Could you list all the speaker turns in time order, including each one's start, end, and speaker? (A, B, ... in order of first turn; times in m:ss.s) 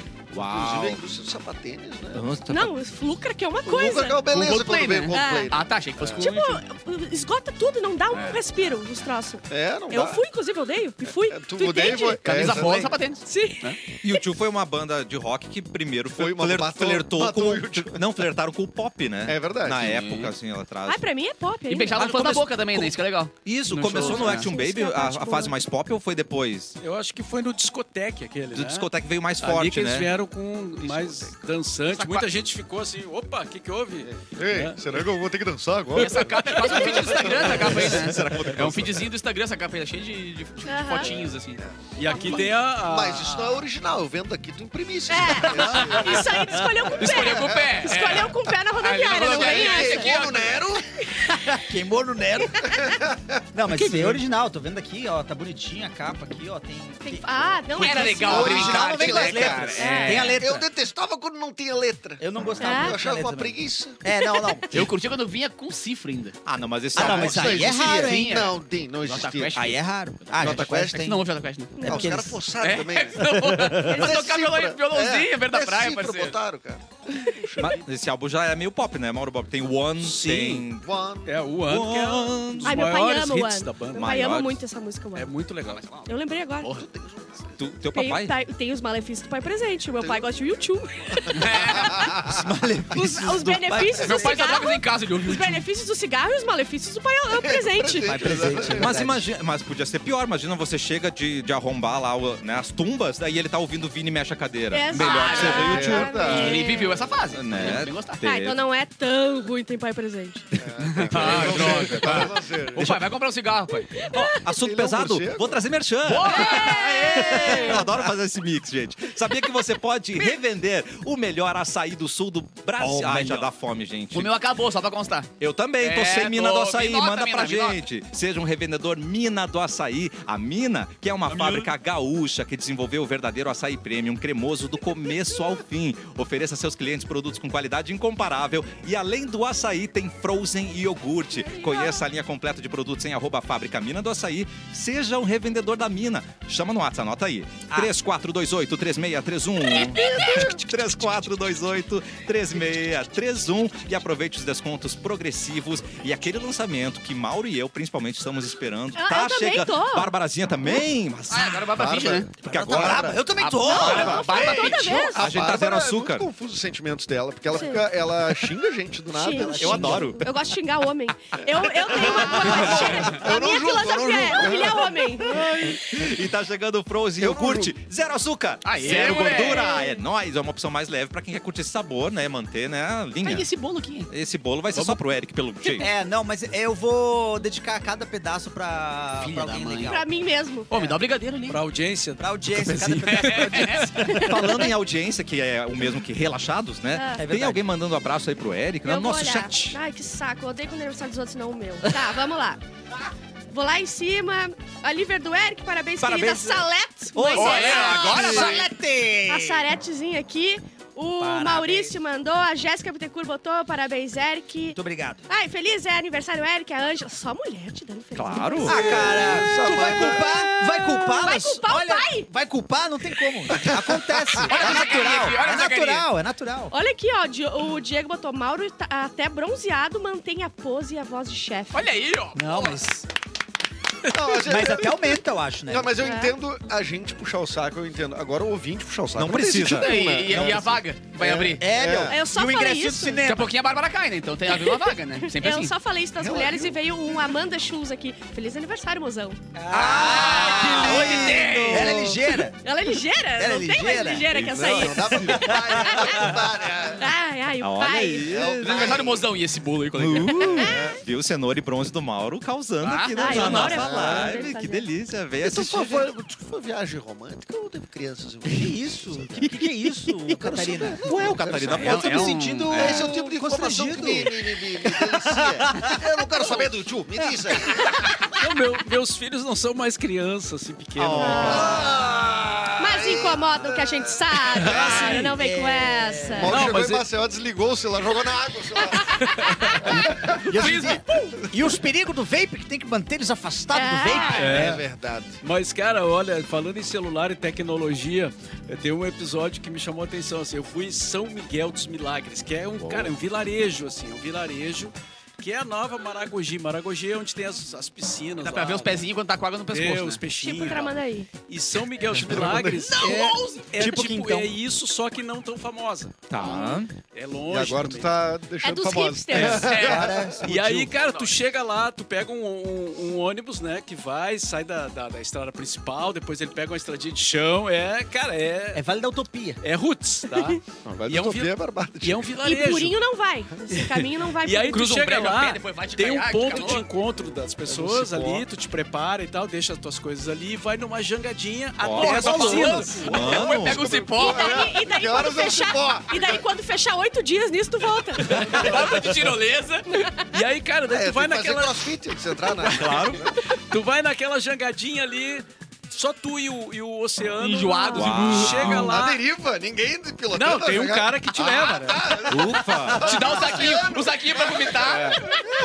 0:00.3-0:01.0 A
0:00.4-0:02.3 B
0:02.1-0:02.8 A
0:02.5-0:04.2 C
0:03.6-0:06.3 B
0:04.3-0:06.6 D
0:05.1-0:05.5 C
0:06.2-0:12.2 C
0:08.1-0:08.4 D
0:09.5-0:10.2 B
0:11.1-0:13.0 B
0:12.2-0:13.8 D
0:13.2-0:14.2 C
0:14.0-0:21.0 A
0:16.2-0:18.1 B
0:19.3-0:20.2 B
0:19.9-0:20.3 D
0:20.9-0:22.0 C
0:21.7-0:24.5 D
0:22.0-0:26.8 A
0:23.9-0:25.6 C
0:26.8-0:34.8 E
0:28.5-0:30.1 A
0:30.8-0:31.3 B
0:31.9-0:32.3 D
0:34.0-0:38.1 B
0:35.9-0:41.6 D
0:36.0-0:37.3 E
0:37.4-0:39.1 A
0:40.7-0:41.1 C
0:41.0-0:47.8 B
0:42.0-0:43.6 E
0:42.1-0:42.5 C
0:45.1-0:50.2 C
0:45.4-0:46.6 F
0:47.0-0:50.7 D
0:47.8-0:48.4 E
0:49.1-0:50.9 B
0:51.3-0:52.8 F
0:52.4-0:53.0 C
0:52.7-0:53.4 B
0:53.5-1:00.7 F
0:57.0-0:58.8 C
0:57.8-1:00.3 D
0:58.2-1:04.0 B
0:59.7-1:00.3 C
1:02.2-1:04.9 F
1:02.6-1:03.0 C
1:04.1-1:04.5 C
1:04.7-1:06.4 D
1:06.4-1:07.6 A
1:06.9-1:08.5 F
1:07.0-1:09.7 B
1:07.0-1:11.8 D
1:09.5-1:11.2 F
1:10.4-1:11.2 B
1:11.8-1:12.1 C
1:11.8-1:17.9 B
1:11.8-1:12.4 F
1:12.6-1:16.4 D
1:13.3-1:14.0 F
1:17.6-1:20.8 A
1:20.0-1:20.6 D
1:20.8-1:21.4 B
1:21.2-1:24.2 E
1:21.7-1:22.8 A
1:22.6-1:25.3 C
1:23.9-1:24.6 A
1:25.1-1:26.0 E
1:25.6-1:26.1 D
1:26.0-1:26.7 C
1:26.7-1:27.6 B
1:27.6-1:28.3 A
1:27.9-1:32.0 C
1:30.0-1:30.3 B
1:31.0-1:32.4 B
1:31.3-1:32.1 D
1:32.3-1:34.4 F
1:32.9-1:38.4 C
1:34.0-1:35.7 D
1:37.3-1:39.0 B
1:38.0-1:39.2 F
1:38.6-1:46.2 A
1:44.7-1:47.0 C
1:45.0-1:48.2 D
1:45.3-1:46.8 B
1:47.3-1:48.6 A
1:48.2-1:50.4 C
1:50.6-1:53.0 B
1:50.8-1:54.1 D
1:51.0-1:52.3 A
1:53.9-1:54.3 C
1:54.1-2:04.3 A
1:54.5-1:55.6 B
1:56.0-1:58.0 D
1:56.2-1:57.9 C
2:02.8-2:03.5 D
2:04.1-2:07.8 D
2:05.4-2:41.7 A
2:11.3-2:11.7 D
2:21.3-2:22.0 C
2:29.6-2:30.4 D
2:29.9-2:30.6 B
2:39.0-2:40.1 C
2:41.3-2:42.3 D
2:41.7-2:50.3 B
2:42.4-2:43.1 A
2:42.5-2:44.3 F
2:43.4-2:45.0 D
2:43.7-2:45.3 C
2:43.8-2:44.4 A
2:45.0-2:46.3 A
2:47.5-2:47.8 C
2:49.1-2:55.4 C
2:49.3-2:50.2 F
2:49.6-2:50.2 A
2:52.0-2:55.1 B
2:52.0-2:52.7 F
2:52.6-2:52.9 A
2:55.2-3:03.5 A
2:57.2-2:57.8 B
2:58.6-2:59.7 D
2:59.3-3:00.0 C
3:03.2-3:04.1 D
3:04.1-3:05.9 A
3:05.8-3:10.1 F
3:09.2-3:10.0 D
3:09.9-3:10.7 C
3:10.7-3:11.6 D
3:11.5-3:14.0 E
3:12.2-3:14.7 F
3:12.8-3:13.9 D
3:14.0-3:14.3 C
3:14.1-3:19.8 A
3:16.9-3:17.2 C
3:17.2-3:17.6 F
3:18.8-3:22.6 C
3:23.5-3:28.6 C
3:26.0-3:26.6 A
3:27.1-3:29.7 F
3:27.3-3:28.7 D
3:29.3-3:38.8 C
3:31.2-3:32.0 F
3:34.7-3:35.3 F
3:38.2-3:39.4 A
3:38.6-3:46.7 F
3:38.7-3:40.6 B
3:40.8-3:42.3 C
3:43.5-3:44.5 B
3:44.4-3:46.1 D
3:46.7-3:51.9 C
3:51.7-3:52.8 D
3:52.4-3:53.1 F
3:54.1-4:02.2 B
3:54.2-3:56.0 F
3:56.0-3:56.4 C
3:59.2-4:00.5 A
3:59.6-4:01.6 D
4:00.3-4:00.7 F
4:01.6-4:03.5 F
4:02.1-4:03.2 C
4:03.2-4:05.7 D
4:04.5-4:09.4 C
4:06.2-4:06.8 B
4:09.5-4:12.6 F
4:09.7-4:12.2 D
4:10.3-4:11.1 C
4:10.6-4:12.0 B
4:11.0-4:11.7 A
4:12.6-4:16.4 C
4:13.4-4:16.4 F
4:14.3-4:15.0 A
4:14.4-4:17.1 B
4:17.0-4:18.3 C
4:17.6-4:19.0 A
4:18.3-4:19.3 B
4:18.6-4:20.6 D
4:20.0-4:26.1 A
4:20.3-4:20.8 C
4:20.4-4:21.0 B
4:22.8-4:23.6 D
4:23.2-4:24.9 C
4:23.3-4:24.4 B
4:25.4-4:38.1 B
4:28.5-4:36.0 F
4:31.0-4:33.1 A
4:31.7-4:33.1 D
4:38.4-4:41.8 E
4:41.0-4:41.9 A
4:41.2-4:41.8 C
4:41.3-4:45.3 B
4:42.8-4:46.6 C
4:44.7-4:46.7 F
4:44.8-4:45.2 E
4:46.4-4:50.4 B
4:46.4-4:47.0 E
4:48.8-4:49.9 C
4:49.2-4:49.6 E
4:49.8-4:54.8 F
4:50.5-4:51.3 D
4:50.6-4:50.9 E
4:53.7-4:54.5 C
4:54.3-4:54.8 E
4:54.4-4:55.4 B
4:55.4-5:09.1 E
5:02.8-5:03.1 A
5:08.4-5:10.2 D
5:09.7-5:18.2 E
5:10.4-5:11.3 C
5:12.2-5:12.9 B
5:12.6-5:13.7 D
5:13.0-5:14.5 F
5:16.3-5:16.9 A
5:16.4-5:16.8 C
5:17.5-5:20.4 B
5:18.6-5:19.7 C
5:19.3-5:19.6 A
5:19.6-5:20.9 F
5:19.7-5:20.1 D
5:19.7-5:28.8 E
5:21.0-5:21.4 D
5:28.7-5:29.6 F
5:29.6-5:33.0 E
5:30.8-5:32.3 B
5:32.4-5:34.8 C
5:33.7-5:43.4 E
5:34.7-5:36.9 D
5:37.7-5:38.4 B
5:41.8-5:43.8 A
5:42.0-5:44.7 D
5:43.1-5:46.4 B
5:44.1-5:48.4 C
5:48.2-5:59.2 E
5:48.4-5:49.8 D
5:49.9-5:50.2 C
5:50.9-5:53.4 B
5:52.7-5:53.2 A
5:57.4-5:58.8 D
5:57.9-5:58.9 A
5:58.7-6:05.0 B
6:00.3-6:02.2 E
6:02.3-6:03.4 A
6:02.9-6:05.2 D
6:04.8-6:05.4 E